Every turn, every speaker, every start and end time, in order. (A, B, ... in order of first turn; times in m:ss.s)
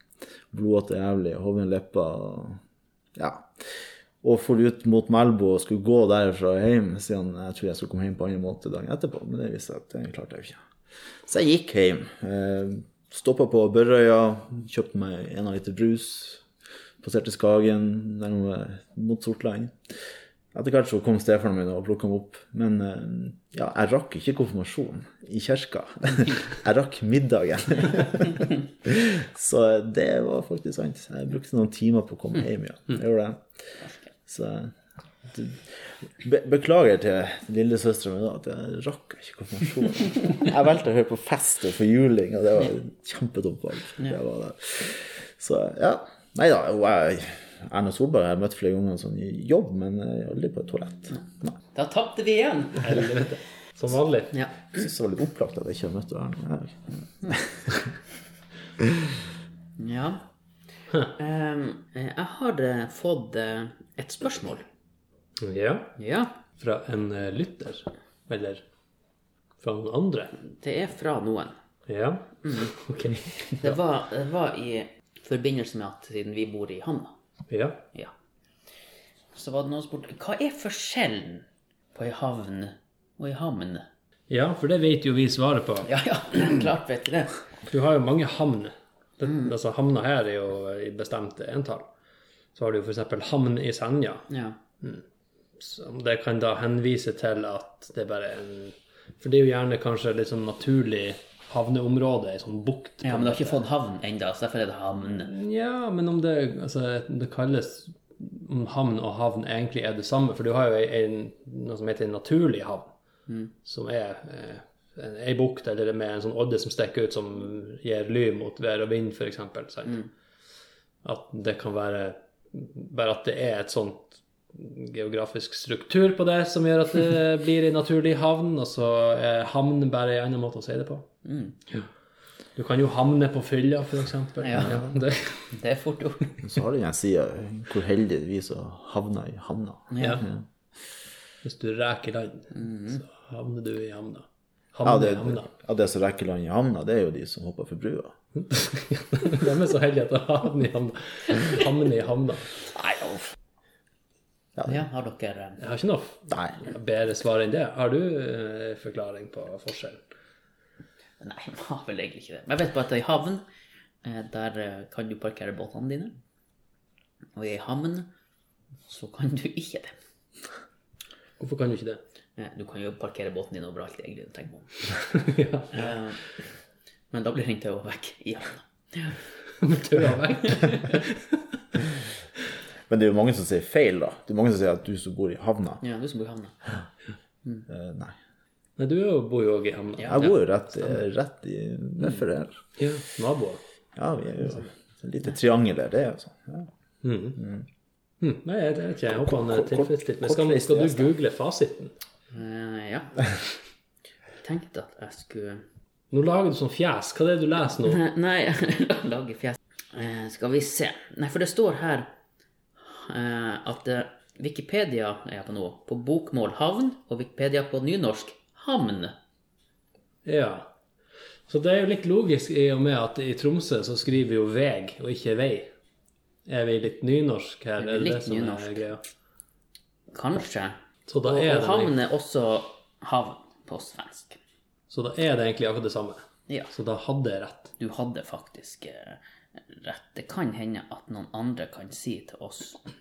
0:00.5-0:02.6 A
0:03.2-0:10.6 A
0:11.2-0:16.4 A
0:17.0-0:19.9 A
0:20.5-0:33.4 A
0:34.3-0:34.7 A
0:35.3-0:51.5 A
0:51.7-0:53.1 B
0:52.8-0:54.3 C
0:54.3-0:54.6 B
0:54.7-0:57.9 A
0:58.8-0:59.1 A
0:59.8-1:00.2 B
1:01.0-1:04.7 B
1:05.4-1:06.0 C
1:06.0-1:06.4 B
1:06.6-1:08.6 C
1:09.6-1:10.4 C
1:10.4-1:11.6 B
1:11.9-1:13.8 C
1:13.4-1:17.2 B
1:17.5-1:17.8 C
1:19.4-1:23.9 B
1:24.3-1:25.9 C
1:25.8-1:27.4 B
1:27.7-1:31.9 C
1:32.6-1:34.3 C
1:34.3-1:34.6 B
1:35.6-1:43.7 C
1:43.0-1:45.3 B
1:45.3-1:52.9 C
1:53.6-2:00.1 C
2:01.0-2:11.1 C
2:11.2-2:11.6 B
2:12.6-2:15.5 C
2:14.4-2:14.9 B
2:15.5-2:16.4 B
2:16.4-2:20.4 A
2:19.9-2:20.2 B
2:21.4-2:25.5 C
2:22.6-2:23.0 B
2:24.8-2:28.2 A
2:28.4-2:32.5 C
2:32.7-2:33.3 A
2:34.6-2:35.6 B
2:35.6-2:40.0 C
2:36.3-2:36.6 A
2:41.2-2:43.4 B
2:44.0-2:46.2 B
2:47.4-2:48.1 B
2:48.9-2:50.0 B
2:51.4-2:52.0 C
2:52.4-2:54.8 B
2:55.1-2:55.9 C
2:55.7-2:56.2 B
2:57.1-2:59.2 B
2:59.6-3:01.4 C
3:00.6-3:01.0 B
3:02.9-3:05.8 A
3:05.8-3:06.6 B
3:07.7-3:08.2 A
3:08.8-3:10.3 C
3:10.0-3:10.4 B
3:10.1-3:12.6 A
3:12.8-3:13.6 C
3:14.0-3:16.7 A
3:17.0-3:17.4 C
3:17.4-3:17.6 A
3:18.2-3:21.9 C
3:19.1-3:21.1 A
3:22.3-3:23.3 B
3:24.4-3:25.6 B
3:26.1-3:28.0 C
3:27.8-3:32.1 B
3:32.8-3:39.2 B
3:40.2-3:40.7 C
3:41.5-3:45.7 C
3:46.5-3:49.0 C
3:47.8-3:48.9 B
3:50.1-3:54.4 B
3:51.1-3:52.0 C
3:54.9-3:57.7 C
3:57.8-4:02.8 B